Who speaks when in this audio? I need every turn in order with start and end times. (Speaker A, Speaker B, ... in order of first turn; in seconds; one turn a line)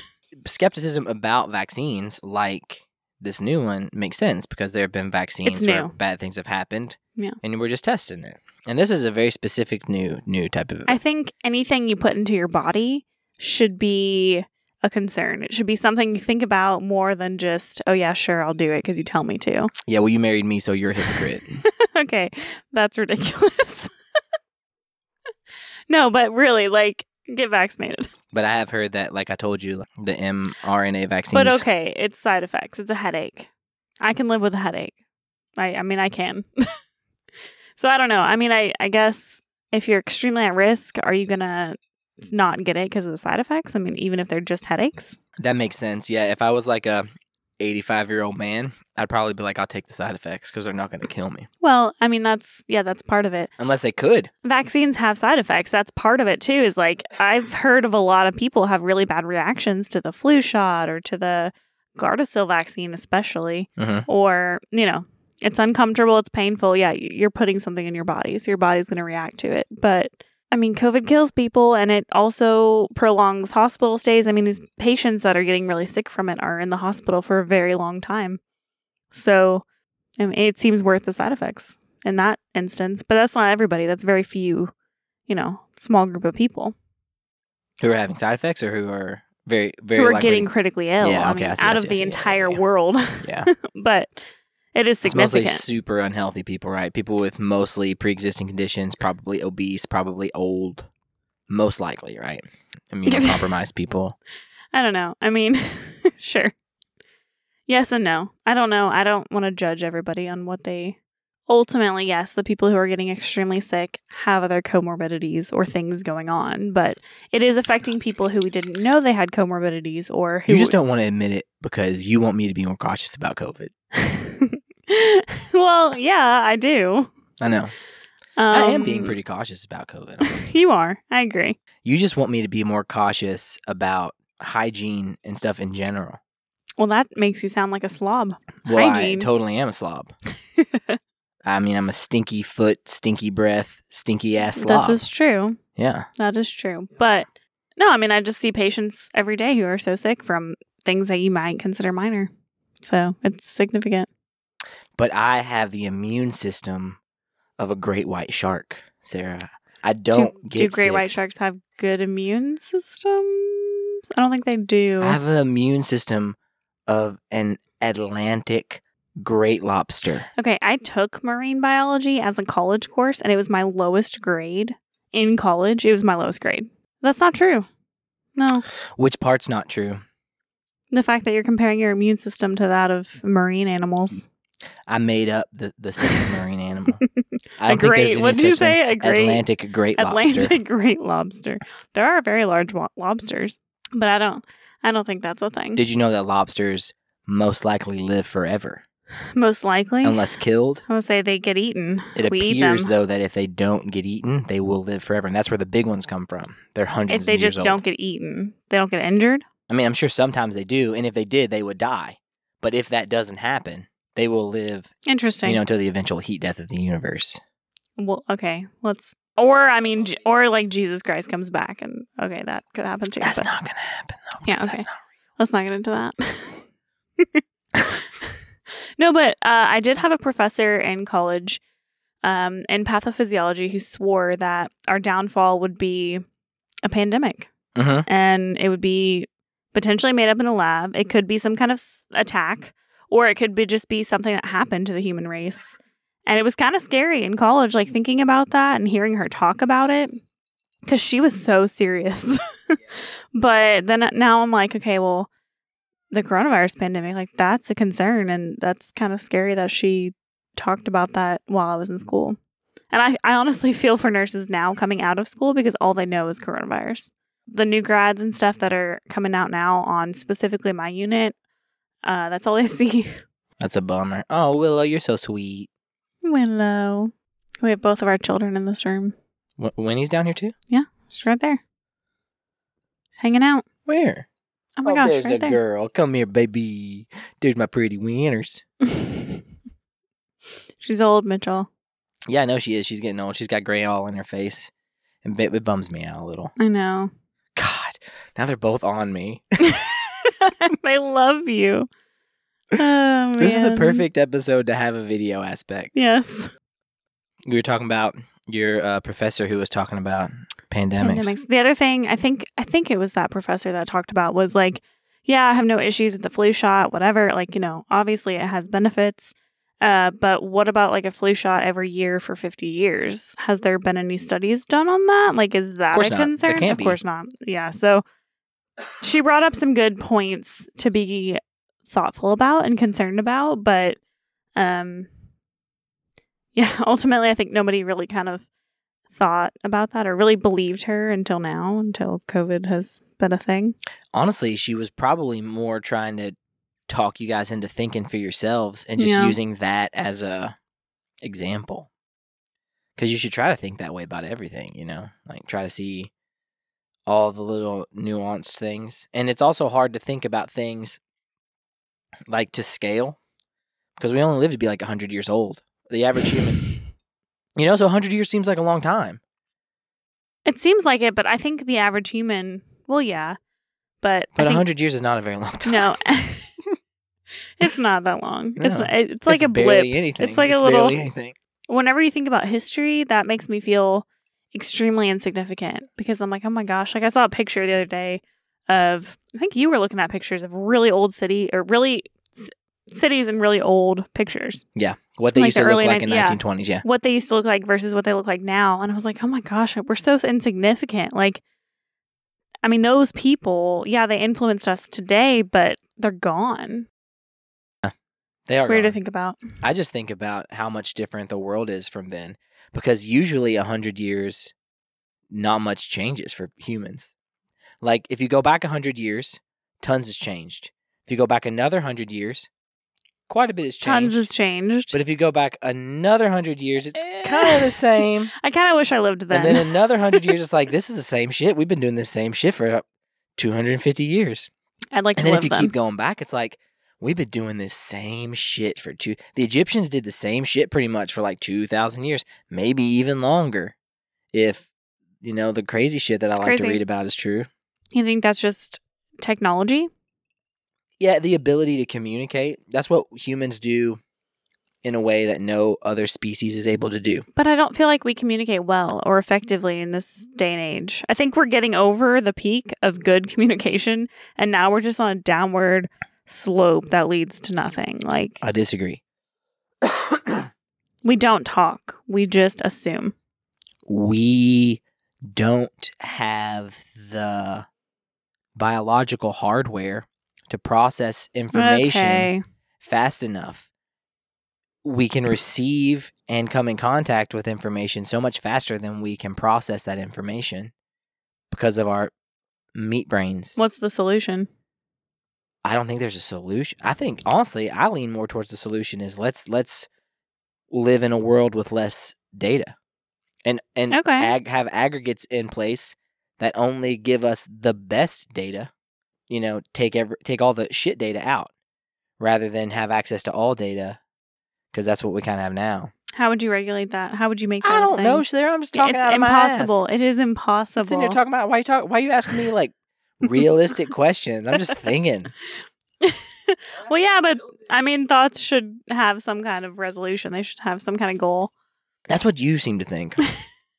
Speaker A: 0.4-11.0
Speaker B: 5.4-5.9
Speaker B: 10.9-19.7
Speaker A: 19.9-21.6
Speaker B: 21.0-23.9
Speaker B: 25.9-28.1
Speaker A: 28.3-31.6
Speaker B: 31.3-33.5
Speaker B: 34.0-35.0
Speaker B: 35.6-36.5
Speaker B: 37.8-45.1
Speaker A: 45.4-47.1
Speaker A: 47.6-51.5
Speaker B: 51.6-53.5
Speaker A: 53.6-54.3
Speaker B: 54.4-78.4
Speaker A: 63.8-64.1
Speaker B: 79.1-79.6
Speaker B: 80.2-84.7
Speaker B: 85.3-86.7
Speaker A: 87.8-92.6
Speaker B: 89.9-94.1
Speaker A: 93.2-93.5
Speaker B: 94.7-95.6
Speaker A: 95.0-100.9
Speaker A: 101.5-104.2
Speaker B: 103.1-103.5
Speaker B: 104.7-106.5
Speaker B: 107.7-120.8
Speaker A: 120.5-123.7
Speaker B: 124.0-127.1
Speaker A: 127.4-127.7
Speaker B: 128.4-129.2
Speaker A: 128.5-130.5
Speaker B: 130.2-131.6
Speaker A: 131.8-136.2
Speaker B: 136.8-139.3
Speaker A: 138.6-140.1
Speaker B: 140.6-141.0
Speaker A: 141.4-145.0
Speaker B: 144.6-145.6
Speaker A: 145.8-146.1
Speaker B: 146.2-154.1
Speaker A: 154.9-157.0
Speaker A: 157.6-161.2
Speaker B: 160.1-165.2
Speaker A: 165.0-166.3
Speaker A: 166.9-170.3
Speaker B: 170.4-177.7
Speaker B: 178.3-178.6
Speaker A: 178.9-180.0
Speaker B: 180.9-184.2
Speaker A: 184.9-187.0
Speaker A: 187.6-190.6
Speaker B: 187.7-189.4
Speaker B: 190.0-195.8
Speaker A: 195.8-198.8
Speaker B: 199.3-200.3
Speaker A: 200.0-200.8
Speaker B: 200.9-202.9
Speaker A: 202.1-207.8
Speaker B: 207.1-209.4
Speaker A: 209.7-214.9
Speaker B: 215.1-215.6
Speaker A: 215.4-217.4
Speaker B: 218.0-223.5
Speaker A: 223.2-225.0
Speaker B: 224.4-224.8
Speaker B: 225.4-226.6
Speaker B: 227.2-228.0
Speaker B: 229.0-231.6
Speaker B: 232.2-236.2
Speaker B: 236.8-237.5
Speaker A: 237.7-238.1
Speaker B: 238.1-245.7
Speaker B: 246.3-250.2
Speaker B: 250.8-252.8
Speaker B: 253.3-255.3
Speaker B: 256.1-262.4
Speaker B: 262.9-271.3
Speaker B: 272.0-273.1
Speaker A: 273.6-275.7
Speaker B: 276.2-279.1
Speaker A: 279.6-280.5
Speaker B: 280.7-281.6
Speaker B: 283.2-283.6
Speaker A: 283.9-284.2
Speaker B: 284.8-285.6
Speaker A: 284.8-288.6
Speaker B: 288.9-289.2
Speaker B: 290.8-291.7
Speaker A: 292.3-294.7
Speaker A: 295.2-296.5
Speaker B: 296.6-297.1
Speaker A: 297.5-299.4
Speaker B: 299.6-301.9
Speaker B: 302.8-304.0
Speaker A: 303.4-305.9
Speaker B: 305.9-306.5
Speaker A: 307.5-311.3
Speaker B: 311.0-328.0
Speaker A: 325.9-327.0
Speaker B: 329.0-334.0
Speaker B: 334.6-335.1
Speaker B: 336.5-338.4
Speaker B: 339.1-343.8
Speaker A: 344.1-346.4
Speaker A: 346.9-350.5
Speaker B: 349.0-349.4
Speaker A: 351.2-351.9
Speaker A: 353.0-356.1
Speaker A: 357.1-361.0
Speaker A: 362.3-363.2
Speaker A: 364.0-366.6
Speaker A: 367.6-369.2
Speaker B: 370.4-373.4
Speaker B: 374.0-374.6
Speaker A: 374.3-375.9
Speaker B: 375.6-376.5
Speaker B: 377.6-381.0
Speaker A: 378.6-381.4
Speaker B: 381.7-394.6
Speaker A: 394.7-396.8
Speaker B: 395.4-401.4
Speaker B: 402.6-406.9
Speaker A: 408.5-408.9
Speaker B: 408.6-409.4
Speaker A: 409.6-414.5
Speaker A: 415.3-417.1
Speaker A: 417.8-422.5
Speaker A: 423.3-424.3
Speaker B: 423.8-424.9
Speaker A: 424.9-428.3
Speaker B: 426.9-427.8
Speaker B: 428.3-430.3
Speaker A: 429.3-432.8
Speaker A: 433.4-434.5
Speaker B: 434.9-435.7
Speaker A: 435.2-443.7
Speaker A: 444.3-444.7
Speaker A: 445.2-447.5
Speaker B: 446.4-446.8
Speaker B: 447.9-449.9
Speaker A: 451.0-454.0
Speaker A: 454.8-457.2
Speaker B: 457.3-468.4
Speaker A: 468.4-469.0
Speaker A: 469.8-470.5
Speaker B: 471.0-473.1
Speaker A: 473.9-477.7
Speaker A: 478.6-483.7
Speaker B: 481.5-482.4
Speaker A: 484.8-490.7
Speaker A: 491.5-492.1
Speaker A: 492.7-493.6
Speaker B: 493.6-494.5
Speaker A: 495.6-499.9
Speaker A: 500.7-502.7
Speaker A: 503.4-508.7
Speaker B: 503.9-504.3
Speaker A: 509.3-511.5
Speaker A: 512.2-514.0
Speaker A: 514.7-515.9
Speaker B: 516.1-521.2
Speaker A: 517.6-519.8
Speaker A: 520.8-525.3
Speaker B: 526.0-531.5
Speaker A: 532.1-533.2